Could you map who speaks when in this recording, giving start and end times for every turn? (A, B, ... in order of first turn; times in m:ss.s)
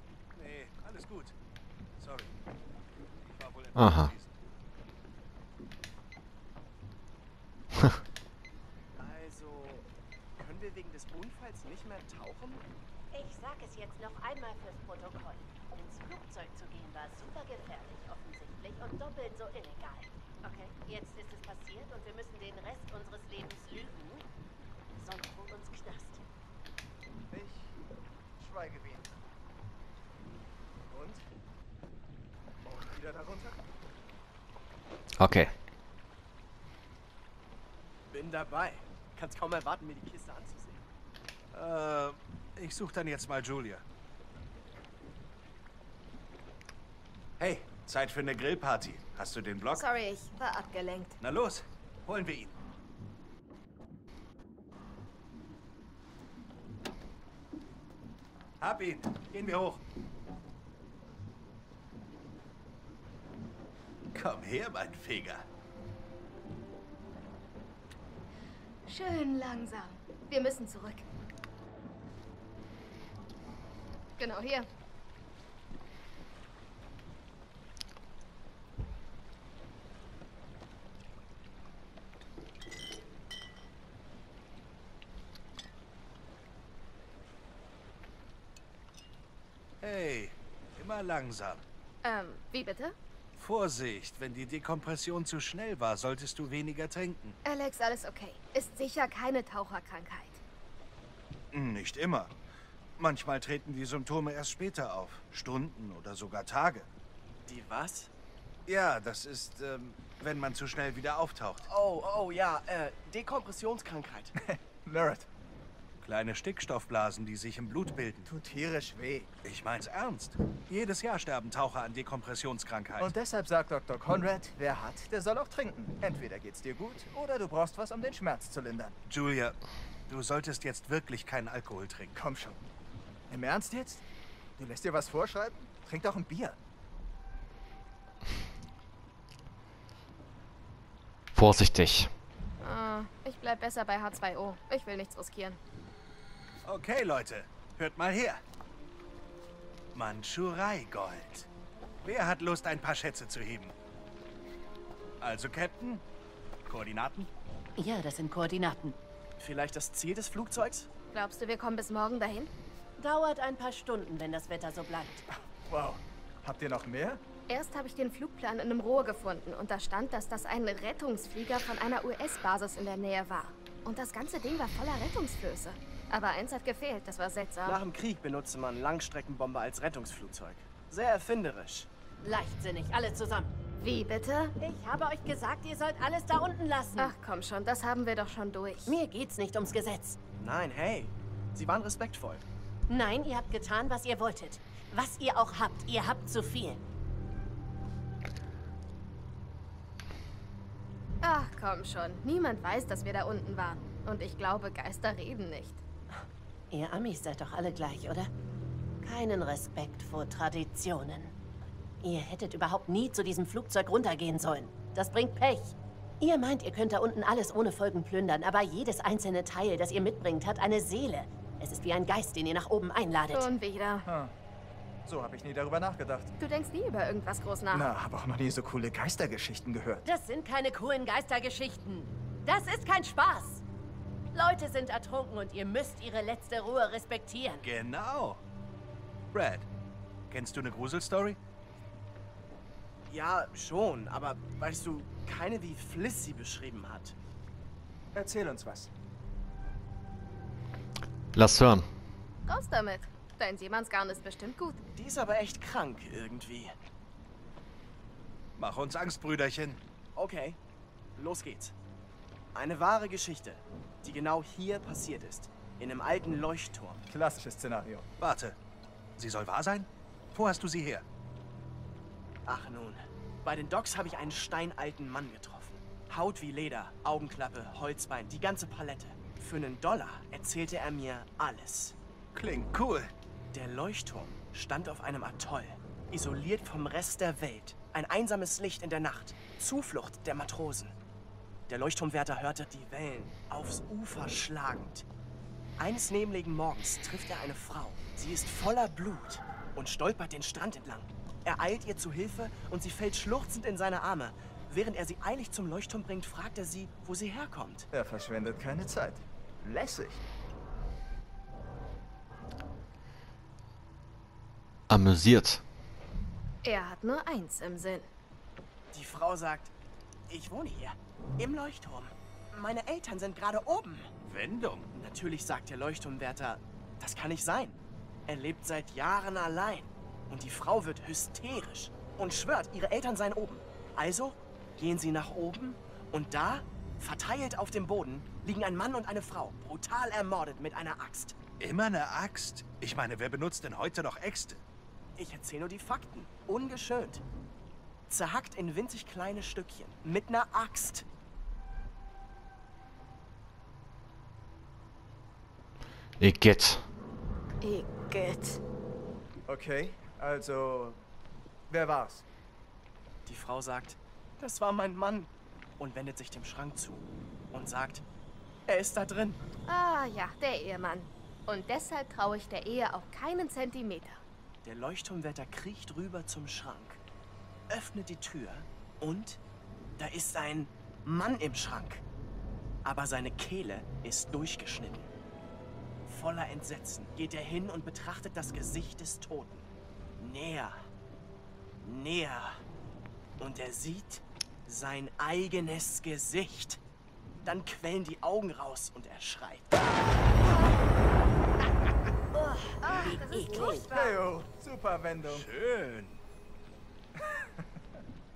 0:00.4-0:01.3 A
0:02.0-0:02.3 A
0:03.3-0:04.3 A
0:03.8-0:04.1 B
0:09.0-0:09.9 C
0:10.4-0:12.6 C
0:13.1-0:24.3 D
0:25.0-0:26.2 D
0:27.3-0:27.8 E
0:28.4-0:29.1 E
0:30.8-0:31.2 E
0:32.6-0:33.7 E
0:35.2-0:35.5 B
0:38.1-0:40.8 C
0:41.5-0:43.8 A
0:47.4-0:49.9 A
0:49.7-0:51.2 F
0:51.2-0:52.5 A
0:58.6-0:59.8 A
1:04.1-1:05.5 A
1:08.9-1:11.0 F
1:14.2-1:14.7 F
1:29.8-1:31.6 A
1:32.0-1:33.0 F
1:33.4-1:37.4 A
1:37.4-1:40.4 F
1:41.5-1:42.3 A
1:43.0-1:46.9 A
1:47.4-1:48.1 C
1:48.7-1:51.7 A
1:51.7-1:54.3 C
1:54.4-1:55.3 E
1:56.0-1:58.3 A
1:58.2-1:59.3 E
1:59.4-2:03.1 A
2:03.0-2:09.0 E
2:09.1-2:09.6 A
2:10.1-2:12.2 A
2:12.1-2:12.6 E
2:13.3-2:14.1 E
2:14.6-2:16.6 E
2:21.4-2:22.1 B
2:22.6-2:25.6 F
2:26.6-2:28.4 A
2:29.9-2:31.5 A
2:32.0-2:33.7 A
2:35.2-2:36.0 A
2:36.7-2:37.3 A
2:37.8-2:39.0 D
2:39.4-2:40.9 C
2:41.1-2:42.5 F
2:43.0-2:45.3 D
2:45.7-2:47.2 E
2:47.5-2:57.8 F
2:57.6-3:01.9 C
3:02.2-3:03.6 D
3:03.8-3:04.5 F
3:04.6-3:07.2 D
3:07.0-3:09.0 F
3:08.9-3:10.2 D
3:10.4-3:12.4 C
3:12.9-3:16.8 D
3:21.2-3:25.8 F
3:26.7-3:28.3 D
3:29.0-3:31.3 D
3:32.0-3:43.5 D
3:43.3-3:44.1 F
3:44.1-3:44.3 E
3:45.0-3:46.3 E
3:46.4-3:47.9 F
3:47.7-3:50.0 E
3:50.1-3:53.6 D
3:54.3-3:57.7 D
3:57.6-3:58.4 A
3:59.3-3:59.7 A
4:00.3-4:01.4 A
4:03.1-4:07.2 C
4:08.2-4:08.9 E
4:11.4-4:11.9 B
4:12.5-4:14.8 F
4:15.0-4:16.7 C
4:18.6-4:19.8 A
4:20.2-4:20.6 C
4:21.2-4:21.8 C
4:22.5-4:27.0 C
4:27.1-4:28.1 E
4:28.2-4:28.6 A
4:29.2-4:31.0 A
4:32.5-4:42.0 C
4:42.4-4:43.1 A
4:43.5-4:50.9 C
4:51.7-4:55.1 C
4:55.8-5:07.9 C
5:07.9-5:10.2 E
5:14.9-5:15.6 B
5:16.6-5:18.1 F
5:18.9-5:19.7 C
5:20.3-5:24.1 C
5:24.2-5:24.9 A
5:24.9-5:41.4 C
5:41.6-5:44.6 A
5:45.2-5:47.2 C
5:48.1-5:51.1 C
5:56.2-5:56.8 B
5:57.6-5:58.6 F
5:59.5-6:01.0 E
6:01.7-6:02.2 E
6:03.3-6:08.0 C
6:08.7-6:09.4 C
6:09.7-6:14.2 F
6:14.6-6:17.0 C
6:17.7-6:19.4 C
6:20.0-6:22.0 C
6:22.8-6:25.1 C
6:26.1-6:30.8 C
6:31.8-6:32.6 C
6:33.4-6:36.8 C
6:37.4-6:40.3 C
6:42.4-6:43.9 D
6:42.8-6:44.0 F
6:43.8-6:45.5 E
6:45.2-6:46.2 A
6:47.2-6:47.6 E